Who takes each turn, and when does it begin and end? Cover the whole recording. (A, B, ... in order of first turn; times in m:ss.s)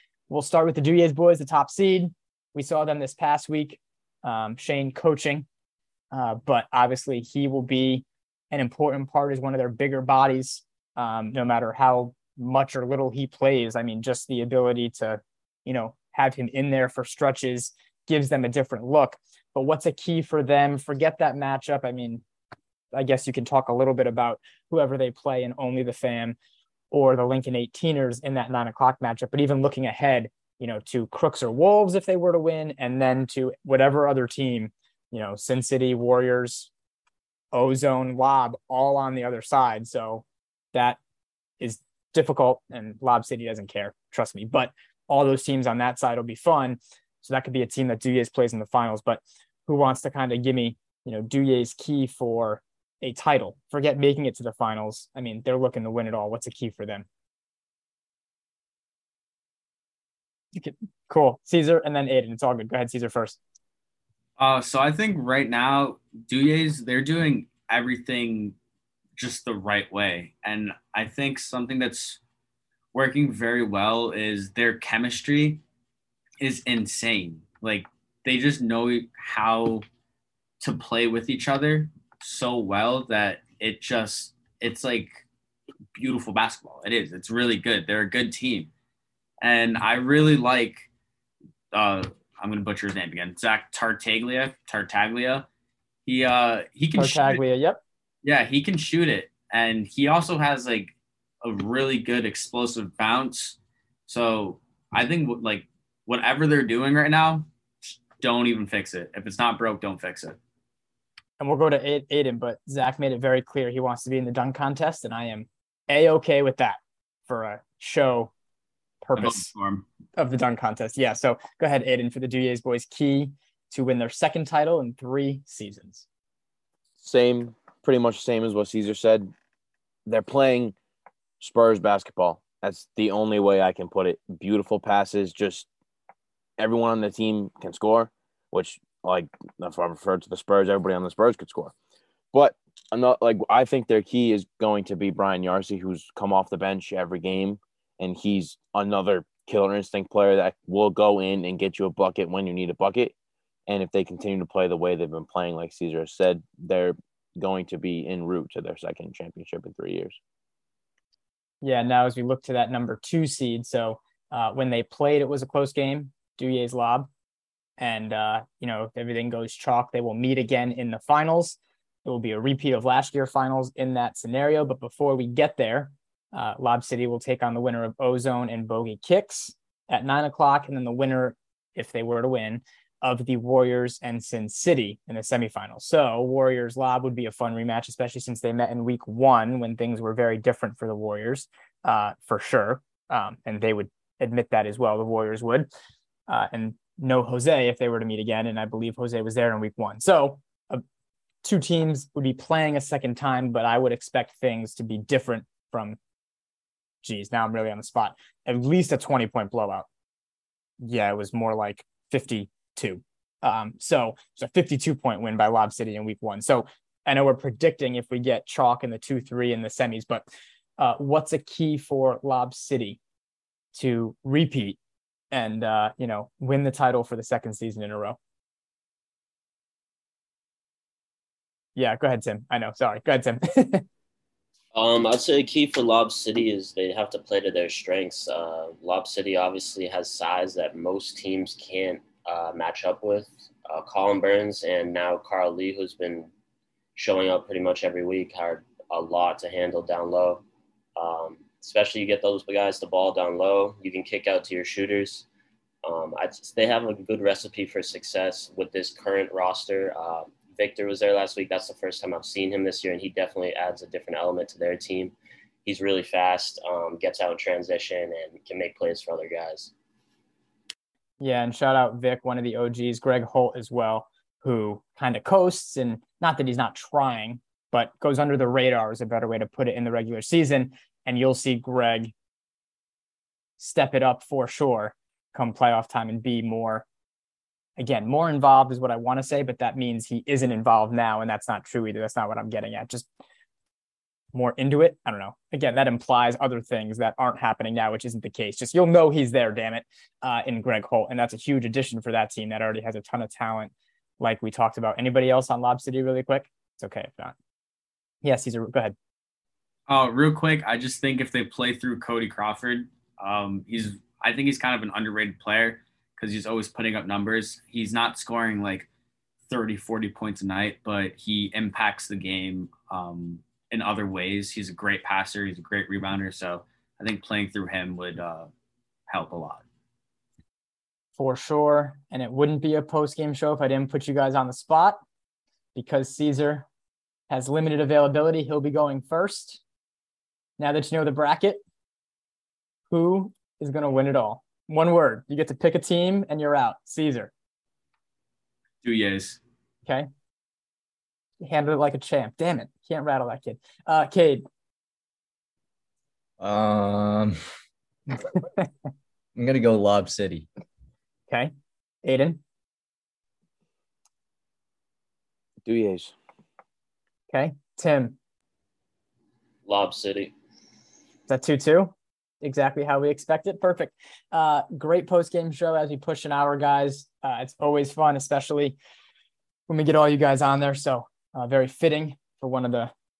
0:00.3-0:05.4 A
0:06.1-0:22.2 A
0:22.9-0:26.4 A
0:26.9-0:36.7 A
0:37.5-0:41.0 A
0:41.6-0:57.0 A
1:00.6-1:03.4 A
1:04.4-1:08.5 B
1:09.2-1:12.2 B
1:12.9-1:15.6 B
1:16.4-1:19.8 B
1:20.6-1:25.2 B
1:26.0-1:28.7 B
1:29.4-1:30.9 B
1:31.7-1:35.5 B
1:36.0-1:37.4 B
1:37.0-1:37.8 A
1:38.2-1:50.4 B
1:51.4-1:58.3 A
1:59.0-1:59.5 A
1:59.2-1:59.8 B
2:00.2-2:06.0 A
2:07.0-2:09.3 C
2:10.0-2:10.7 C
2:11.4-2:15.7 C
2:16.6-2:21.7 C
2:22.3-2:33.1 C
2:33.7-2:40.2 C
2:41.6-2:47.1 A
2:47.8-3:15.7 A
3:16.3-3:20.8 A
3:21.4-3:26.0 A
3:27.0-3:29.9 A
3:30.8-3:40.2 A
3:40.8-3:43.0 A
3:43.7-3:44.8 A
3:45.3-3:48.2 A
3:51.8-3:53.8 A
3:54.7-4:06.3 D
4:06.9-4:10.4 D
4:11.0-4:15.2 D
4:15.8-4:25.1 D
4:25.6-4:29.7 D
4:31.2-4:42.1 A
4:43.6-4:46.8 A
4:47.8-4:53.1 A
4:54.3-5:07.3 A
5:08.2-5:08.9 A
5:09.9-5:18.9 B
5:19.5-5:28.5 B
5:29.1-5:29.6 B
5:31.2-5:35.0 A
5:35.7-5:36.6 A
5:37.3-5:39.6 A
5:40.6-5:41.6 A
5:42.9-5:47.3 A
5:48.8-5:49.4 B
5:51.4-5:54.4 A
5:56.4-5:57.4 E
5:58.4-5:58.6 A
5:59.3-6:00.5 E
6:02.0-6:02.4 A
6:05.6-6:06.1 C
6:07.3-6:08.2 A
6:09.6-6:10.3 D
6:11.3-6:18.8 A
6:19.7-6:22.9 A